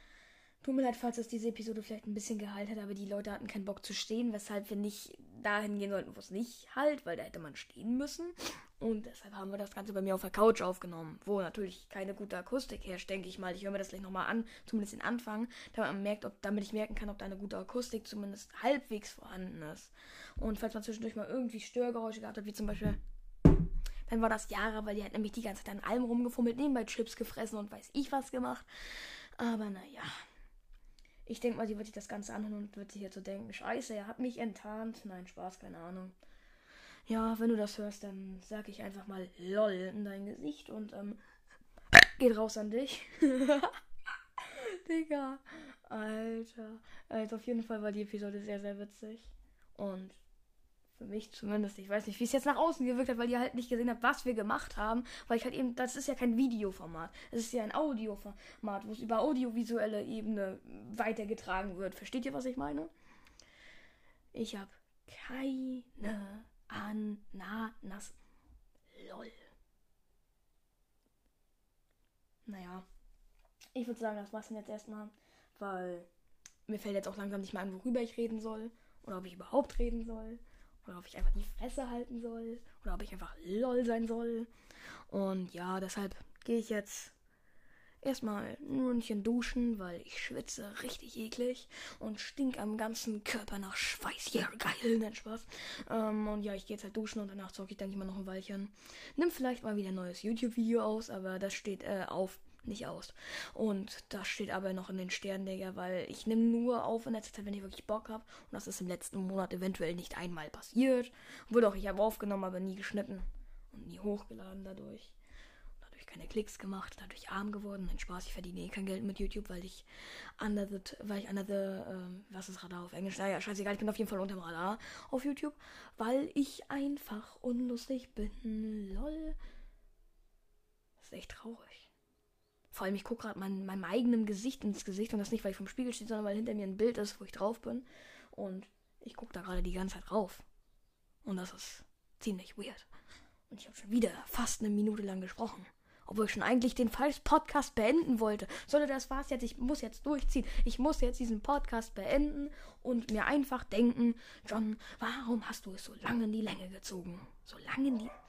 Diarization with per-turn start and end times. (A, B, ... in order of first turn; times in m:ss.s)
0:00.6-0:23.0 A
0:24.1-0:28.6 A
0:29.4-0:30.1 A
0:31.2-0:36.1 A
0:37.1-0:41.2 A
0:41.9-0:43.8 A
0:44.5-0:50.2 A
0:51.0-1:02.9 A
1:04.3-1:08.1 A
1:08.9-1:09.4 A
1:12.4-1:12.8 A
1:13.7-1:16.1 A
1:16.7-1:24.5 A
1:25.1-1:27.1 A
1:28.0-1:55.1 A
1:55.8-1:59.8 A
2:00.4-2:09.4 A
2:11.0-2:11.9 A
2:12.7-2:20.4 A
2:21.2-2:22.8 A
2:23.5-2:38.1 A